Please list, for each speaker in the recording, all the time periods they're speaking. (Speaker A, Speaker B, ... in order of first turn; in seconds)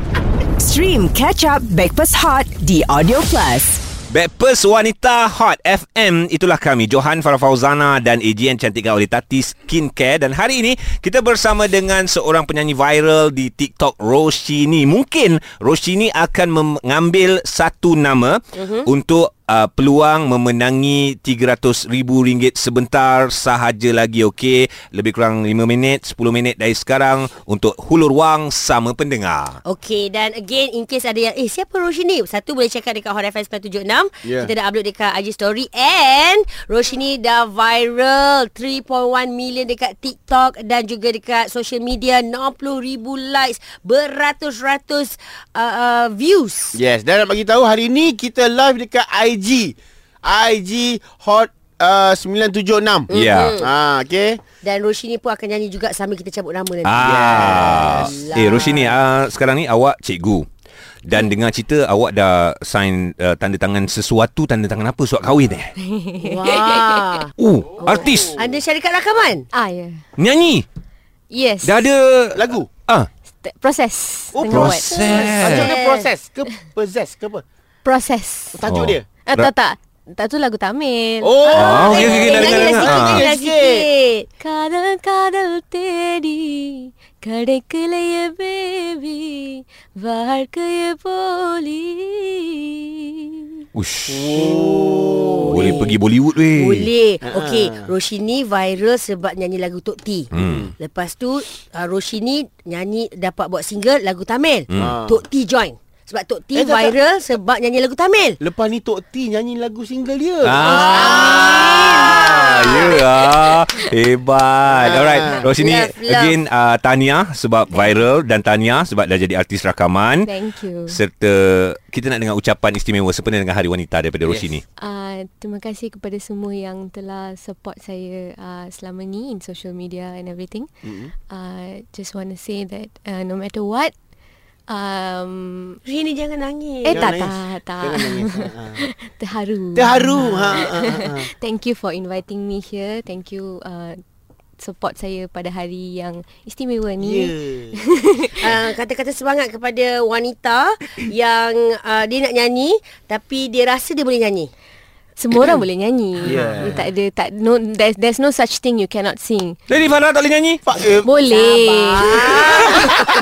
Speaker A: 0.9-3.5
Speaker B: 4.1-29.6, 53.1-53.6, 56.8-60.5, 61.0-65.7, 67.4-68.4, 70.2-70.7, 71.6-73.1, 74.5-75.8, 78.7-79.5, 81.5-83.3, 93.7-94.5, 95.5-96.9, 100.3-100.7, 110.4-120.3, 120.9-124.6, 159.7-160.6
Speaker C: 18.6-18.9, 29.7-46.8, 53.1-53.7, 54.6-58.9, 66.2-67.3, 67.8-69.5, 75.1-76.1, 81.6-84.3, 94.3-96.0, 96.5-108.4, 110.6-113.0, 115.6-116.4, 135.8-137.1, 140.2-140.6, 148.4-154.5, 161.3-162.9
Speaker D: 34.2-34.5, 46.7-54.4, 57.0-58.6, 67.9-68.3, 72.3-72.7, 74.3-77.4, 78.5-79.0, 81.2-83.8, 94.1-95.8, 97.2-97.8, 100.3-100.7, 104.8-105.2, 106.5-107.0, 108.4-112.5, 114.8-115.5, 130.8-131.1, 136.9-138.8, 139.8-141.3, 147.0-147.8, 156.2-156.8, 160.7-161.1, 162.2-163.0
Speaker E: 65.9-67.0, 69.5-70.0, 71.3-71.9, 73.4-75.1, 77.8-78.6, 79.3-82.8, 84.4-93.5, 120.2-121.0, 124.8-130.7, 131.3-133.9, 134.7-135.8, 136.8-144.0, 144.6-148.5, 155.2-159.6, 161.0-162.3